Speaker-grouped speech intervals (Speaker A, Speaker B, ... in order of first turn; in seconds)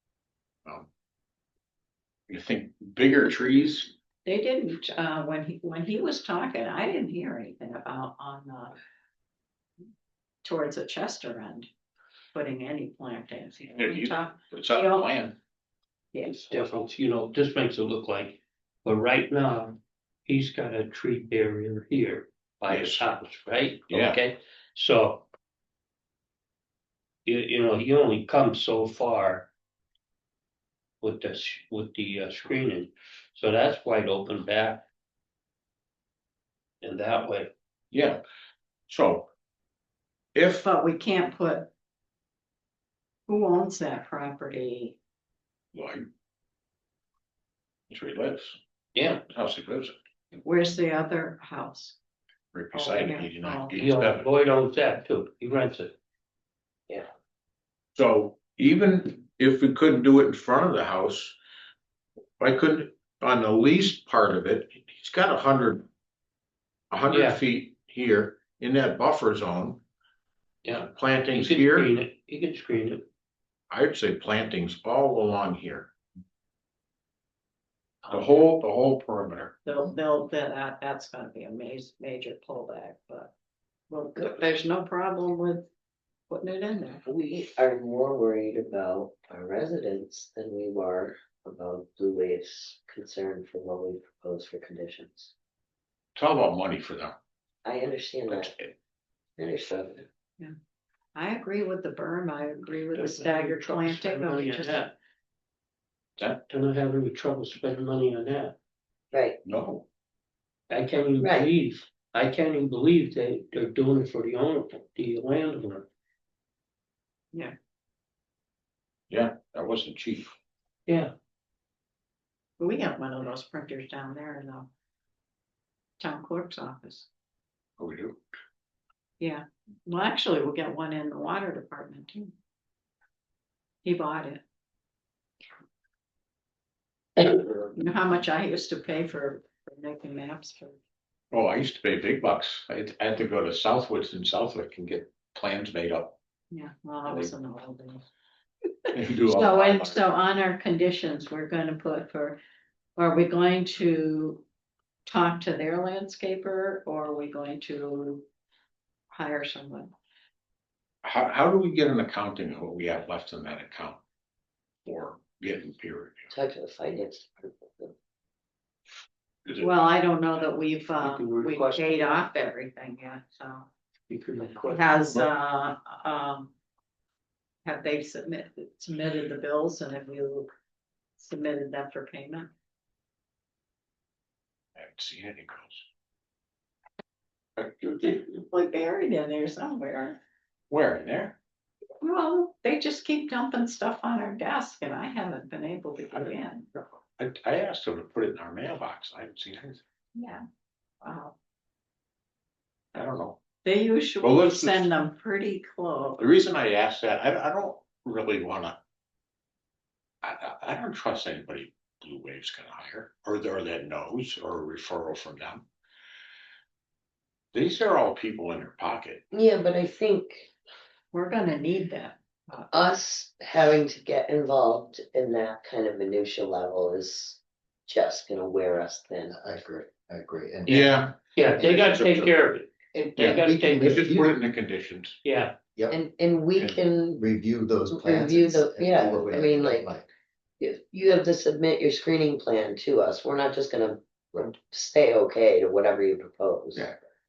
Speaker A: 2.3-3.9, 13.7-15.3, 22.7-23.1, 23.9-24.2, 37.9-38.2, 38.9-39.3, 40.3-40.7, 45.7-46.0, 47.9-48.6, 49.3-50.0, 52.5-54.3, 57.9-61.4, 62.4-65.8, 66.9-69.8, 70.7-71.9, 73.7-75.9, 78.1-79.5, 96.2-97.2, 98.3-98.7, 106.2-106.4, 109.4-109.9, 119.1-120.3, 127.8-128.2, 141.3-146.2, 148.9-150.0, 161.0-164.0, 164.8-166.3, 184.8-185.8, 187.6-188.0, 190.7-191.3, 196.1-199.8, 202.9-203.4, 204.2-204.9, 206.2-208.8, 210.2-215.7, 217.5-219.2, 230.7-232.3, 233.2-235.2
Speaker B: 4.2-8.8, 10.4-11.7, 12.3-15.1, 16.1-16.4, 40.6-41.7, 43.3-45.0, 50.4-52.0, 52.7-53.7, 79.6-83.3, 83.9-85.7, 86.3-87.0, 101.1-104.9, 122.6-124.7, 126.0-127.1, 129.2-132.3, 133.8-134.4, 137.7-140.8, 146.5-148.0, 149.2-152.4, 153.0-154.4, 155.1-158.2, 159.1-159.9, 169.6-173.7, 174.6-176.5, 177.6-180.5, 181.2-182.5, 188.0-190.2, 192.0-196.7, 200.1-200.4, 201.0-201.3, 203.6-206.2, 221.1-222.7
Speaker C: 16.2-25.3, 27.2-29.5, 31.0-34.9, 36.8-37.5, 48.9-49.2, 53.8-56.0, 67.1-67.4, 70.6-73.0, 102.9-104.9, 106.5-108.5, 110.7-115.9, 120.9-121.1, 170.9-172.2, 174.1-174.8, 230.8-234.2, 235.2-235.6
Speaker D: 87.0-95.3, 97.6-98.5, 99.4-100.0, 109.1-109.4, 111.2-111.5, 166.3-167.9, 219.3-220.5, 222.7-229.3, 235.9-237.2, 237.9-239.9, 240.6-246.8
Speaker E: 229.3-231.0, 233.2-234.4, 237.2-240.1